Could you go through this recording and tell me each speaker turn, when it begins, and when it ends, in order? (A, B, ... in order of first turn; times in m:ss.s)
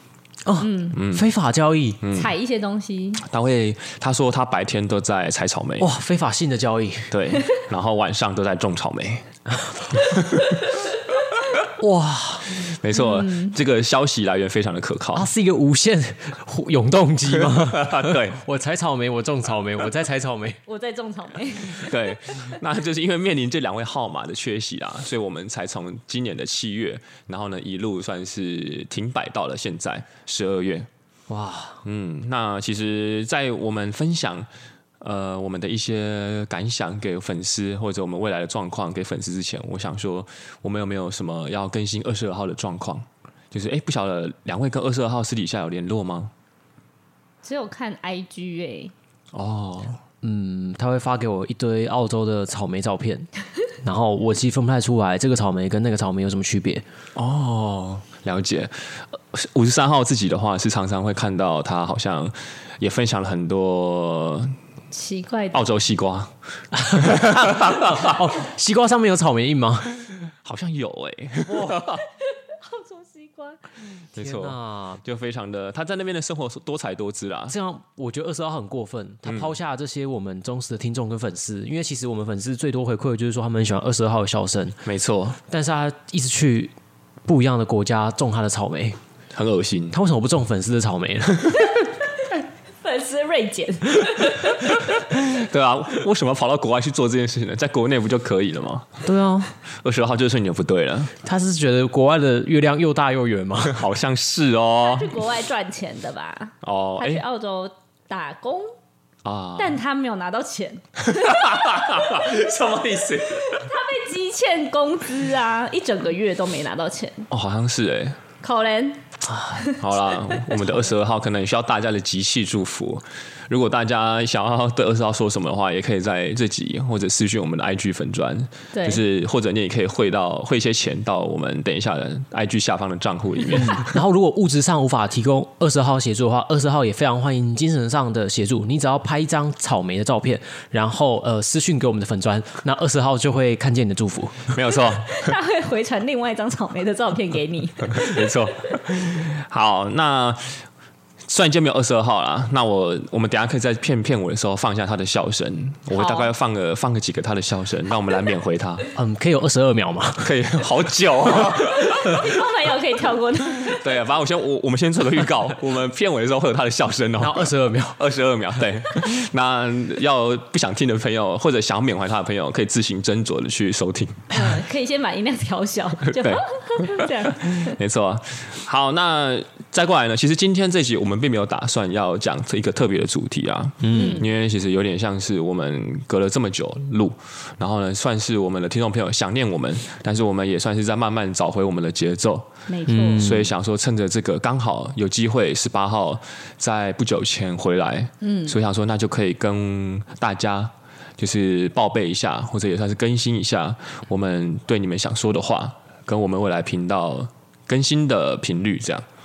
0:00.4-0:02.0 A
0:00.6-0:01.0 B
0:00.9-0:01.3 C
0:02.0-0:02.3 C
0:02.1-0:03.2 B
0:03.2-0:05.9 C
0:05.8-0:07.1 A
0:07.1-0:09.3 C
0:09.9-0:10.7 C
0:11.8-0:12.7 A
0:12.6-0:15.3 C
0:12.9-0:13.6 B
0:15.1-0:20.6 A
0:17.6-0:18.4 C
0:20.7-0:22.0 B
0:21.7-0:30.9 C
0:31.3-0:31.8 A
0:31.8-0:34.5 C
0:35.0-0:46.3 C
0:47.4-0:48.9 B
0:49.3-0:50.0 C
0:50.2-0:53.3 A
0:53.8-0:56.8 A
0:57.2-1:04.5 C
1:04.9-1:05.6 B
1:05.5-1:06.3 C
1:06.8-1:09.9 A
1:06.9-1:08.1 C
1:10.3-1:12.0 C
1:11.9-1:13.7 B
1:14.1-1:17.5 C
1:14.2-1:15.0 A
1:17.5-1:24.8 A
1:19.2-1:19.5 C
1:24.8-1:25.4 C
1:25.5-1:26.7 A
1:27.2-1:29.0 A
1:29.3-1:30.0 C
1:29.9-1:31.6 A
1:32.2-1:34.9 B
1:34.8-1:38.9 C
1:39.0-1:39.5 A
1:39.8-1:41.2 C
1:41.2-1:43.8 A
1:43.7-1:45.1 C
1:44.8-1:48.7 B
1:46.6-1:47.2 C
1:49.2-1:49.8 C
1:49.6-1:51.5 B
1:51.0-1:53.7 C
1:53.5-1:57.3 B
1:57.3-1:58.2 C
1:58.4-2:00.6 B
1:59.8-2:14.0 C
2:08.7-2:09.0 B
2:13.8-2:24.5 A
2:24.5-2:25.3 C
2:24.7-2:28.3 B
2:27.9-2:30.6 C
2:31.3-2:38.9 C
2:35.9-2:36.3 B
2:38.9-2:40.3 A
2:40.2-2:42.3 C
2:41.8-2:43.9 B
2:43.6-2:54.3 C
2:47.2-2:48.0 A
2:54.3-2:57.8 B
2:56.0-3:12.5 C
3:03.8-3:04.2 A
3:03.9-3:04.3 B
3:12.7-3:13.2 B
3:12.9-3:13.5 A
3:13.1-3:29.0 C
3:18.2-3:18.6 B